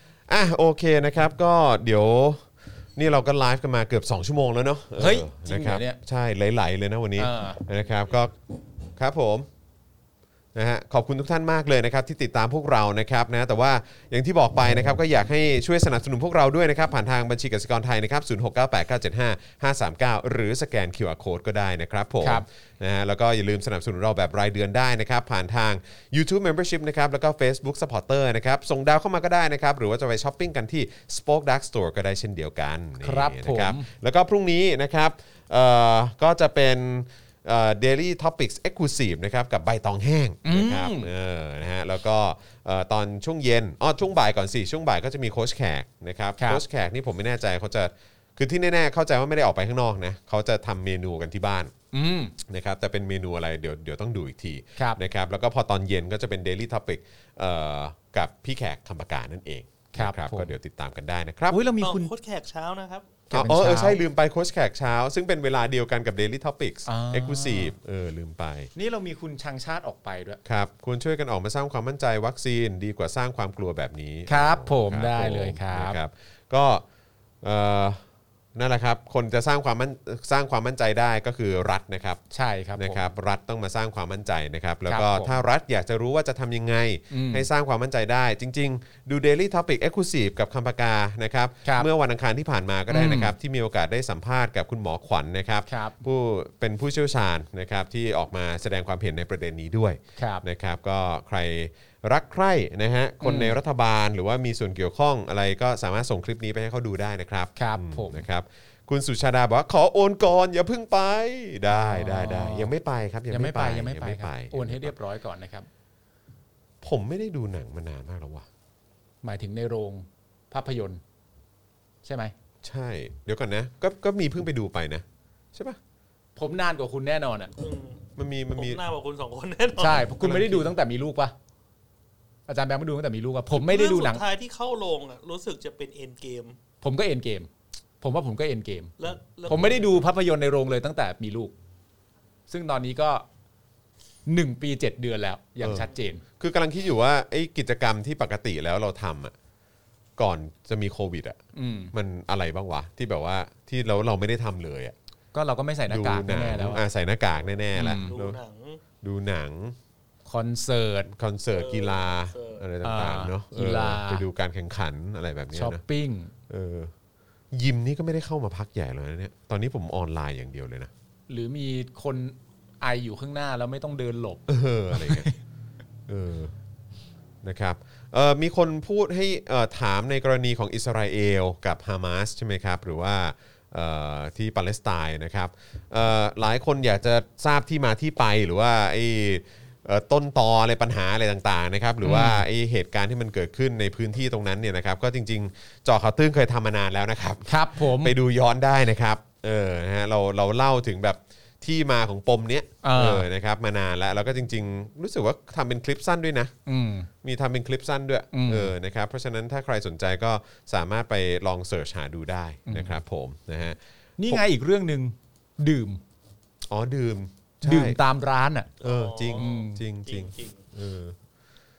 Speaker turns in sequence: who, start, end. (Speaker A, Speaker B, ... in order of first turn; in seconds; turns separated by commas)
Speaker A: 0.3-8.4, Speaker B: 5.0-6.0, Speaker B: 7.2-7.6, Speaker A: 9.0-9.5, Speaker A: 10.6-51.7, Speaker B: 33.0-33.9, Speaker B: 40.4-41.1, Speaker B: 51.9-52.4, Speaker A: 52.4-61.6, Speaker B: 59.9-60.5, Speaker B: 61.5-62.1, Speaker C: 61.8-63.1, Speaker A: 63.3-68.7, Speaker B: 63.3-64.0, Speaker B: 66.9-67.7, Speaker B: 68.8-70.4, Speaker A: 70.5-76.8, Speaker B: 74.3-76.0, Speaker A: 77.4-78.0, Speaker A: 78.5-82.2, Speaker B: 82.3-83.0, Speaker A: 82.8-114.9, Speaker B: 84.9-85.4, Speaker B: 87.1-87.5, Speaker B: 92.9-93.3, Speaker B: 95.7-96.0, Speaker B: 100.2-100.4, Speaker B: 103.2-103.6, Speaker B: 107.6-108.2, Speaker B: 111.7-112.7, Speaker B: 113.3-115.7, Speaker A: 116.8-118.5, Speaker B: 119.2-121.0, Speaker B: 122.0-122.3, Speaker A: 122.6-125.8, Speaker B: 126.4-127.5, Speaker C: 127.6-128.0, Speaker A: 128.2-128.8, Speaker C: 128.6-130.1, Speaker B: 129.8-131.3, Speaker A: 130.0-130.7, Speaker B: 132.5-134.2, Speaker C: 133.5-136.6, Speaker B: 136.8-137.5, Speaker B: 138.0-138.9, Speaker C: 139.0-139.9, Speaker B: 139.5-141.5, Speaker B: 142.5-143.2, Speaker B: 144.3-146.2, Speaker A: 145.6-145.9, Speaker A: 146.4-149.3, Speaker A: 150.2-151.4, Speaker B: 151.5-151.9, Speaker A: 151.9-154.9, Speaker B: 155.3-156.8, Speaker A: 155.9-158.4, Speaker B: 157.8-158.2, Speaker C: 157.8-158.8, Speaker A: 159.0-159.8, Speaker B: 160.3-161.1, Speaker A: 161.1-165.8, Speaker C: 161.5-162.6, Speaker B: 162.8-164.2, Speaker B: 165.5-166.3, Speaker A: 166.5-166.9, Speaker A: 167.5-170.9, Speaker B: 171.3-175.4, Speaker A: 174.5-175.3, Speaker A: 176.1-176.5, Speaker A: 177.4-206.5, Speaker B: 192.0-192.4, Speaker B: 197.5-198.2, Speaker B: 202.8-203.3, Speaker B: 206.7-207.1, Speaker A: 207.2-214.4, Speaker B: 208.3-208.7, Speaker B: 212.7-213.0, Speaker B: 214.2-216.0, Speaker A: 216.7-218.0, Speaker B: 217.6-218.7, Speaker C: 218.8-220.6, Speaker A: 218.8-221.2, Speaker B: 219.4-219.8